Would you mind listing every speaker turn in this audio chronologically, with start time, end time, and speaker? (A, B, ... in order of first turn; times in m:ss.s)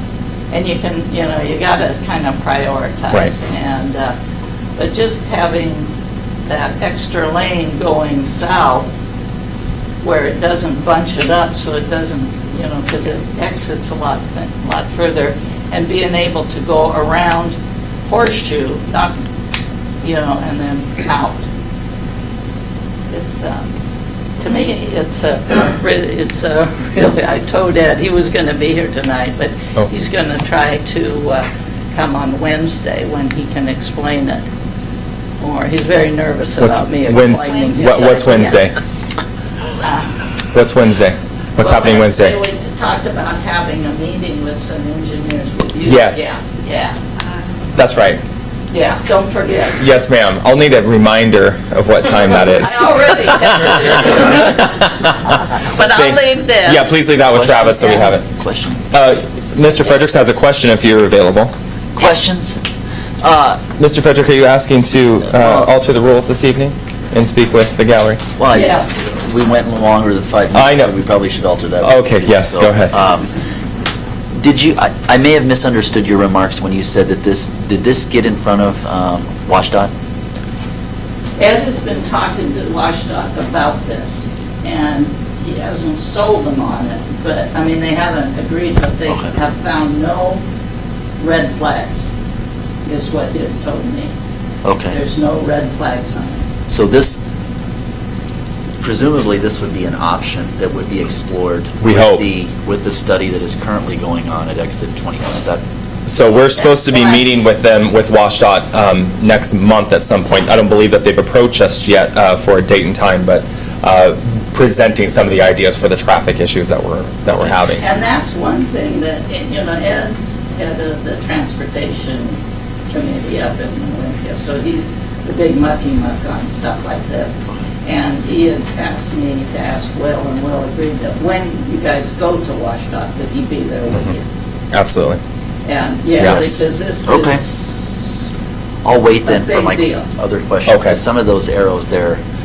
0:00.5-0:04.2 A
0:04.8-0:05.9 A
0:06.5-0:08.9 A
0:10.0-0:19.1 A
0:20.0-0:21.4 A
0:23.1-0:23.7 A
0:24.4-0:34.5 A
0:35.4-0:38.6 A
0:36.6-0:38.8 B
0:39.8-0:40.1 A
0:40.5-0:42.4 B
0:41.6-0:47.0 A
0:45.8-0:46.4 B
0:47.8-0:48.2 B
0:48.7-0:49.8 A
0:49.8-0:53.4 B
0:52.6-0:54.9 A
0:55.5-0:57.0 A
0:55.8-0:58.2 B
0:57.3-0:58.8 C
0:58.9-1:01.5 B
1:02.0-1:02.6 C
1:03.2-1:03.6 C
1:03.8-1:08.2 B
1:05.4-1:05.7 C
1:08.4-1:13.3 C
1:08.5-1:08.9 A
1:10.5-1:10.9 B
1:11.8-1:12.9 B
1:14.4-1:19.9 C
1:21.4-1:30.4 A
1:31.2-1:32.0 A
1:32.9-1:34.1 A
1:34.6-1:35.0 C
1:34.9-1:36.4 A
1:36.7-1:37.2 C
1:38.8-1:45.6 C
1:41.8-1:42.2 B
1:46.1-1:57.8 B
1:46.6-1:47.2 A
1:57.7-2:02.4 A
2:02.9-2:14.2 A
2:14.7-2:15.2 B
2:15.7-2:18.1 A
2:16.2-2:17.4 C
2:18.8-2:22.2 C
2:19.2-2:20.1 A
2:20.7-2:21.0 B